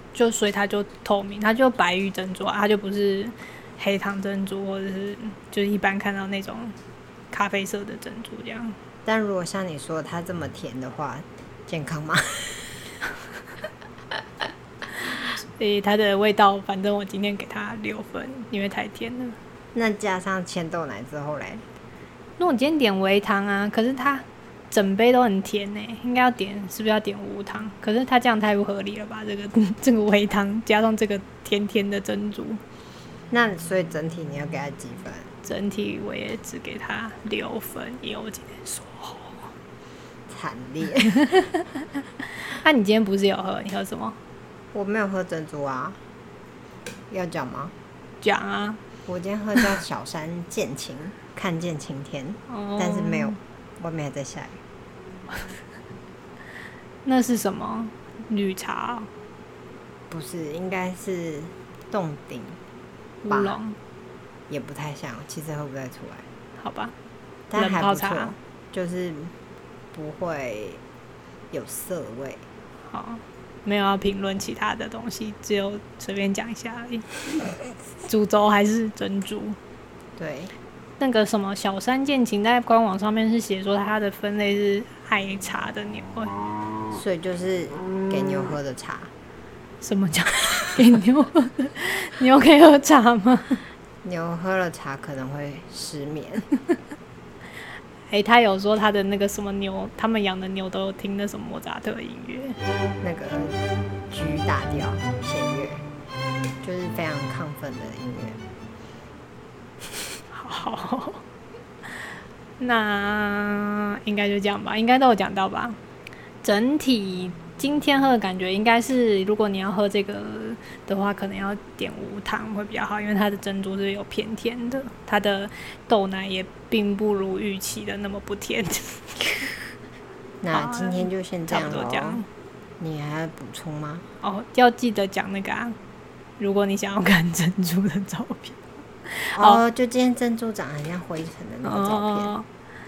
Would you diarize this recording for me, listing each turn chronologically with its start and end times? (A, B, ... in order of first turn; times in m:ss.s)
0:00.1-0:06.8 A
0:07.3-0:08.8 A
0:09.0-0:12.9 B
0:15.2-0:19.4 A
0:19.7-0:21.7 B
0:22.4-0:32.6 A
0:33.3-0:35.3 B
0:35.4-0:39.5 A
0:40.3-0:41.4 B
0:42.4-0:44.2 A
0:44.7-0:46.0 B
0:47.1-0:47.7 B
0:48.2-0:48.8 A
0:49.1-0:54.6 B
0:52.5-0:53.4 A
0:57.0-0:59.1 A
1:00.1-1:02.6 B
1:03.2-1:03.8 A
1:03.3-1:03.6 B
1:04.5-1:06.3 B
1:06.6-1:07.0 A
1:07.5-1:09.3 B
1:07.6-1:08.3 A
1:09.9-1:10.8 B
1:11.5-1:12.4 B
1:12.9-1:17.1 A
1:18.0-1:19.6 A
1:20.2-1:20.5 B
1:21.0-1:26.4 A
1:26.9-1:29.1 B
1:29.8-1:33.6 A
1:34.0-1:36.5 B
1:38.1-1:42.6 A
1:43.0-1:43.6 B
1:44.1-1:45.8 B
1:46.6-1:48.4 B
1:50.3-1:51.2 A
1:52.6-1:55.8 A
1:56.4-2:09.5 A
2:10.4-2:12.3 B
2:10.5-2:12.3 A
2:12.8-2:14.1 B
2:14.2-2:15.8 A
2:16.4-2:19.6 A
2:19.3-2:22.4 B
2:21.6-2:22.5 A